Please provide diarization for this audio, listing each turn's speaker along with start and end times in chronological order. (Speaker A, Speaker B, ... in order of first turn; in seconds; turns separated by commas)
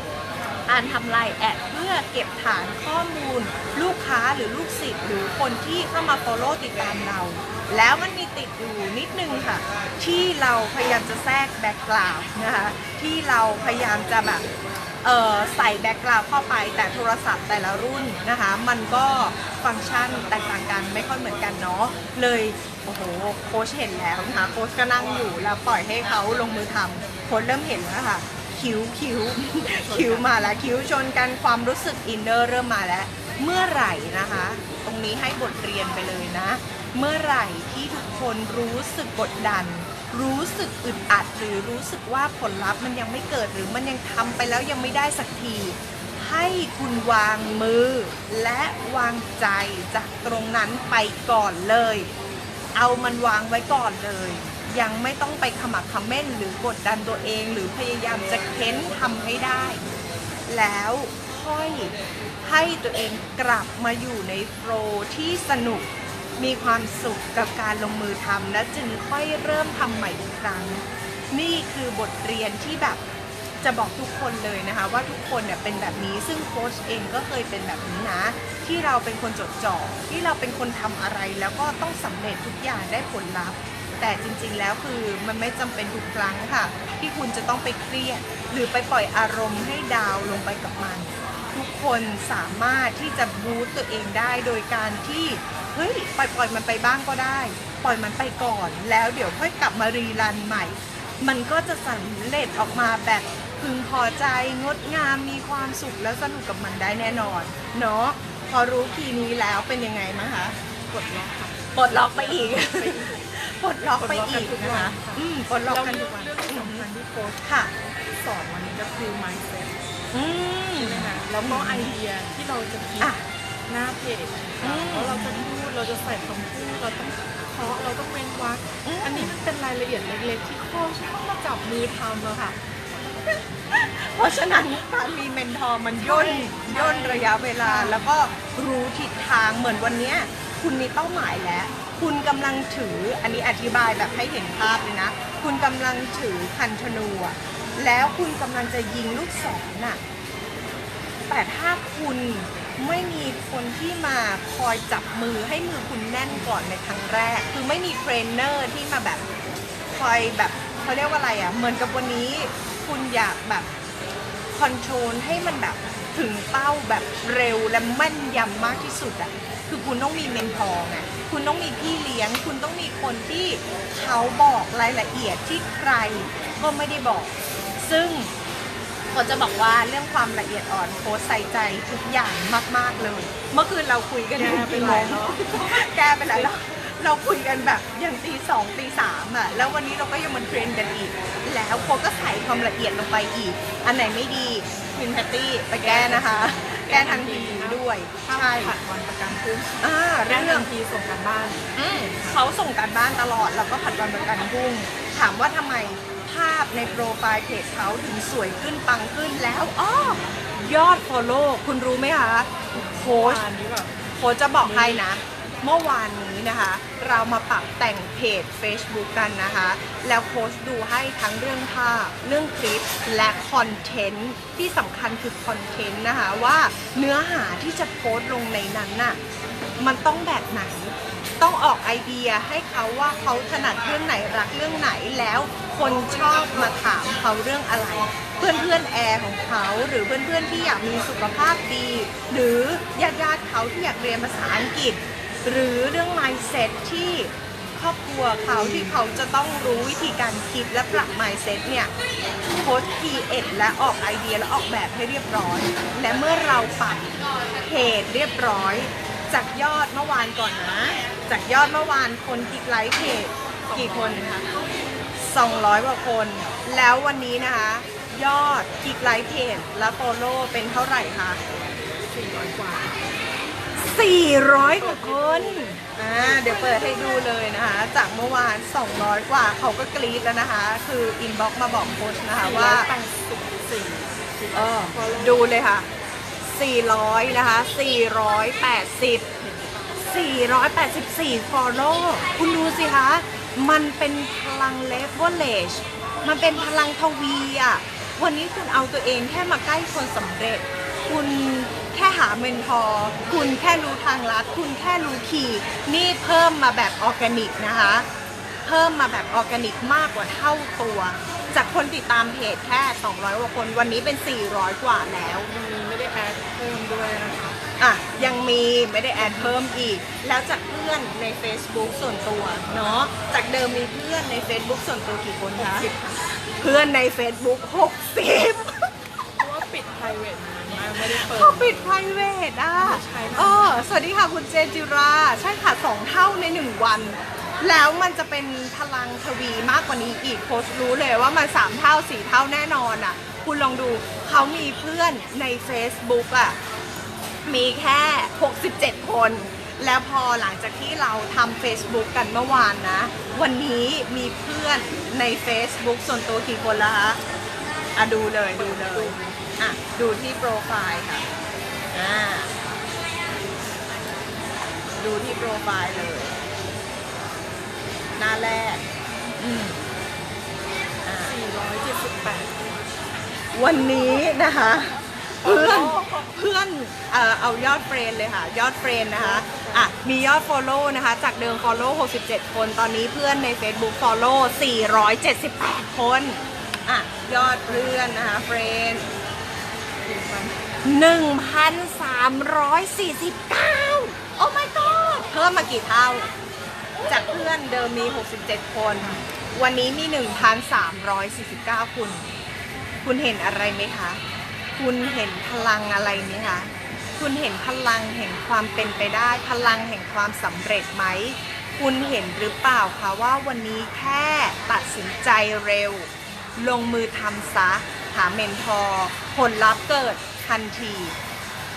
Speaker A: 0.7-14.4, Speaker A: 15.0-52.1, Speaker B: 29.6-30.7, Speaker A: 52.7-59.8, Speaker A: 60.5-65.8, Speaker A: 66.4-73.0, Speaker A: 73.6-110.5, Speaker B: 110.9-113.2, Speaker A: 111.7-116.9, Speaker B: 114.0-117.4, Speaker A: 117.4-117.7, Speaker B: 118.2-119.7, Speaker A: 120.1-121.9, Speaker B: 120.8-123.1, Speaker B: 123.7-132.6, Speaker A: 124.6-125.5, Speaker A: 128.8-129.3, Speaker A: 133.7-150.0, Speaker B: 136.0-138.1, Speaker A: 151.3-159.2, Speaker A: 159.9-163.7, Speaker A: 164.5-178.3, Speaker A: 179.1-198.7, Speaker B: 184.3-186.5, Speaker B: 195.8-202.4, Speaker A: 199.8-200.7, Speaker A: 201.8-213.4, Speaker B: 212.7-213.9, Speaker A: 214.1-229.2, Speaker B: 214.6-215.0, Speaker A: 229.8-251.9, Speaker A: 252.5-264.5, Speaker B: 263.6-264.9, Speaker A: 265.2-271.4, Speaker B: 272.1-273.0, Speaker A: 273.8-282.9, Speaker B: 274.6-276.9, Speaker B: 282.4-285.5, Speaker A: 284.5-285.9, Speaker A: 286.4-289.3, Speaker B: 289.4-289.9, Speaker A: 290.0-308.1, Speaker A: 308.6-315.5, Speaker B: 315.4-317.6, Speaker A: 317.8-325.9, Speaker B: 319.1-319.6, Speaker B: 325.6-326.3, Speaker A: 326.6-328.9, Speaker B: 329.4-332.0, Speaker A: 331.0-346.6, Speaker B: 332.8-333.9, Speaker A: 347.4-357.2, Speaker A: 357.9-361.2, Speaker B: 358.5-359.4, Speaker A: 361.9-362.5, Speaker A: 365.0-366.3, Speaker A: 368.2-368.8, Speaker A: 369.4-369.8, Speaker A: 371.0-371.3, Speaker B: 371.2-372.8, Speaker A: 373.5-389.1, Speaker B: 375.4-376.3, Speaker B: 379.1-379.9, Speaker B: 387.6-387.8, Speaker B: 390.0-390.7, Speaker A: 390.8-396.3, Speaker A: 397.1-402.3, Speaker B: 399.0-399.2, Speaker A: 403.0-404.2, Speaker A: 404.8-421.1